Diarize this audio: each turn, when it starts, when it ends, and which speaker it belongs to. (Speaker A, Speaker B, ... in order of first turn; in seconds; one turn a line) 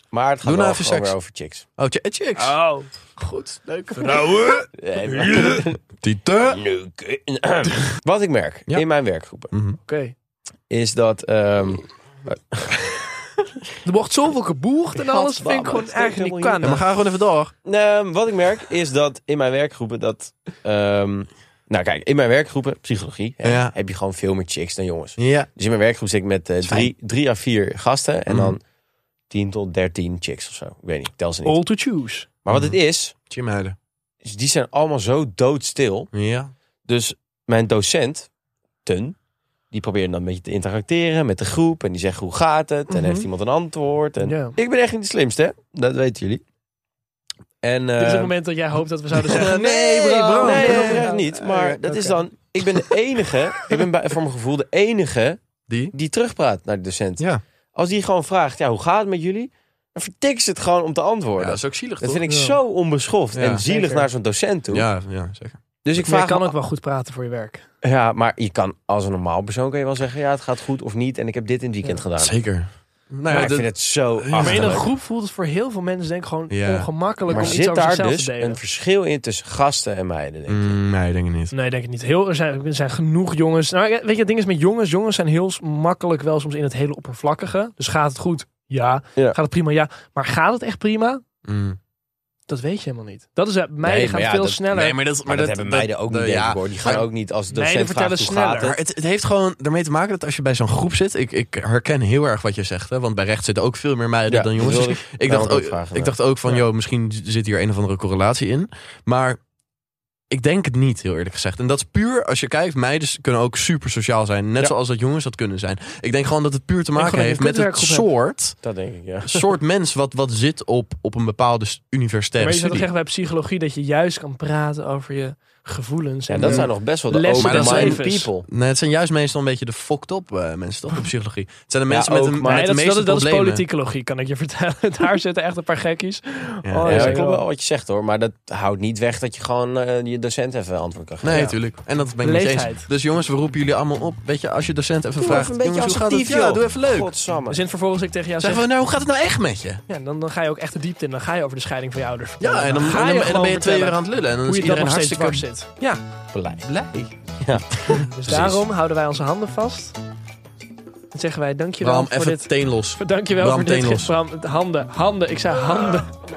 Speaker A: 0.1-1.6
Speaker B: 0.4-1.1
Speaker B: 1.8-2.6
Speaker C: 2.4-2.9
Speaker B: 3.2-4.6
Speaker C: 3.9-4.7
Speaker A: 4.8-5.8
Speaker B: 6.0-6.6
Speaker A: 6.5-9.5
Speaker B: 9.5-9.8
Speaker C: 9.9-10.1
Speaker A: 10.7-13.1
Speaker C: 13.8-16.8
Speaker A: 14.9-16.7
Speaker B: 16.6-17.5
Speaker A: 17.6-28.6
Speaker B: 23.4-23.7
Speaker B: 25.2-25.5
Speaker B: 26.6-26.9
Speaker B: 28.3-28.6
Speaker A: 29.3-31.6
Speaker C: 31.4-32.3
Speaker A: 32.4-33.1
Speaker B: 32.5-32.8
Speaker B: 33.3-33.8
Speaker A: 34.2-36.1
Speaker B: 36.1-36.5
Speaker A: 36.9-38.3
Speaker A: 38.8-39.1
Speaker A: 39.7-46.4
Speaker C: 42.9-43.2
Speaker C: 44.2-44.5
Speaker A: 47.6-48.3
Speaker C: 48.0-52.2
Speaker B: 49.3-51.8
Speaker A: 49.3-55.4
Speaker B: 55.7-55.9
Speaker A: 55.9-64.9
Speaker B: 61.4-62.2
Speaker C: 62.3-62.6
Speaker B: 63.3-63.6
Speaker C: 63.6-64.0
Speaker B: 64.7-65.6
Speaker A: 65.8-66.5
Speaker C: 66.0-67.6
Speaker A: 67.8-72.4
Speaker B: 72.2-74.8
Speaker C: 73.3-73.5
Speaker A: 73.3-74.9
Speaker C: 74.3-78.6
Speaker B: 76.5-77.6
Speaker A: 77.3-80.8
Speaker B: 80.5-81.5
Speaker C: 81.5-91.2
Speaker B: 91.4-91.8
Speaker C: 92.5-95.0
Speaker A: 93.8-94.6
Speaker B: 94.7-97.1
Speaker A: 95.2-98.8
Speaker C: 97.5-98.7
Speaker B: 98.6-109.4
Speaker A: 104.3-106.6
Speaker B: 110.3-118.6
Speaker C: 117.0-118.1
Speaker A: 118.6-119.5
Speaker B: 119.2-122.9
Speaker C: 122.4-128.3
Speaker A: 126.3-128.5
Speaker B: 126.4-126.7
Speaker B: 127.4-133.6
Speaker A: 131.9-132.7
Speaker C: 132.4-137.4
Speaker B: 136.6-137.2
Speaker A: 136.8-141.4
Speaker B: 141.2-147.1
Speaker C: 141.3-141.6
Speaker C: 142.2-142.9
Speaker A: 145.2-147.6
Speaker C: 147.5-148.6
Speaker B: 148.4-149.8
Speaker C: 149.9-156.0
Speaker B: 152.4-155.4
Speaker A: 156.3-156.7
Speaker B: 156.6-157.1
Speaker A: 157.4-157.7
Speaker B: 157.7-158.7
Speaker C: 157.9-159.9
Speaker C: 161.1-166.2
Speaker B: 161.8-164.1